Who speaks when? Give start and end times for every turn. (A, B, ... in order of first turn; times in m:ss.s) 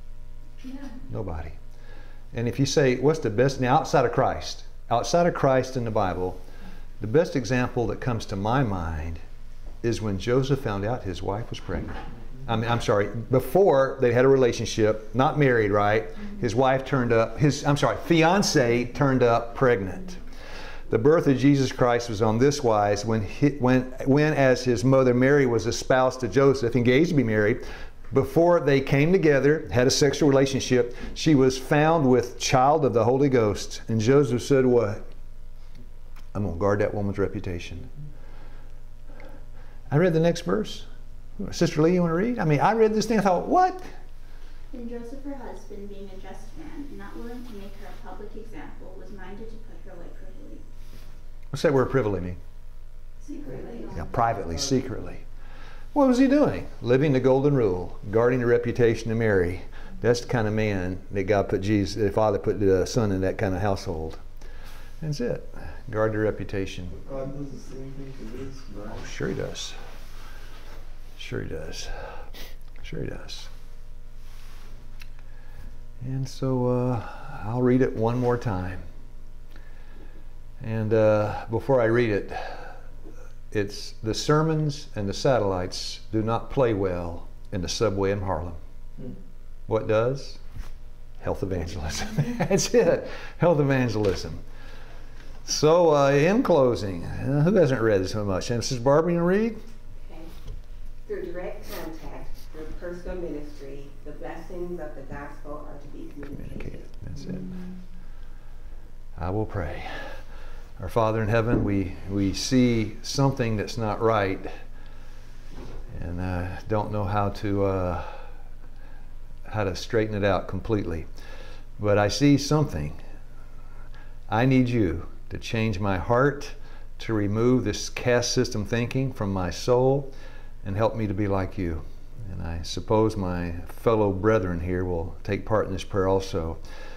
0:00.6-0:01.0 A
0:01.1-0:01.6 B
0:02.3-0:06.4 B
0:07.0-0:09.2 B
0:09.8-0:20.2 B
0:20.9-0:35.0 B
0:36.3-0:37.9 B
0:39.9-0:40.9 B
0:41.4-0:43.9 B
0:44.7-0:50.6 C
0:51.5-0:52.4 B
0:53.2-0:54.0 C
0:53.3-0:54.2 A
0:53.9-0:55.2 B
0:55.9-1:04.2 B
1:05.0-1:07.0 B
1:06.9-1:09.1 D
1:08.9-1:09.8 B
1:11.2-1:12.3 B
1:12.8-1:13.5 B
1:16.0-1:18.8 B
1:20.6-1:22.7 B
1:23.5-1:28.6 B
1:29.7-1:30.4 B
1:31.2-1:34.4 B
1:35.4-1:39.6 B
1:40.0-1:40.3 E
1:41.0-1:47.0 E
1:46.4-1:47.5 B
1:47.2-1:47.8 A
1:49.2-1:50.2 B
1:50.8-1:54.5 B
1:55.9-1:58.3 B
1:59.5-2:01.1 B
2:01.8-2:03.0 B
2:04.3-2:10.1 B
2:10.6-2:16.6 B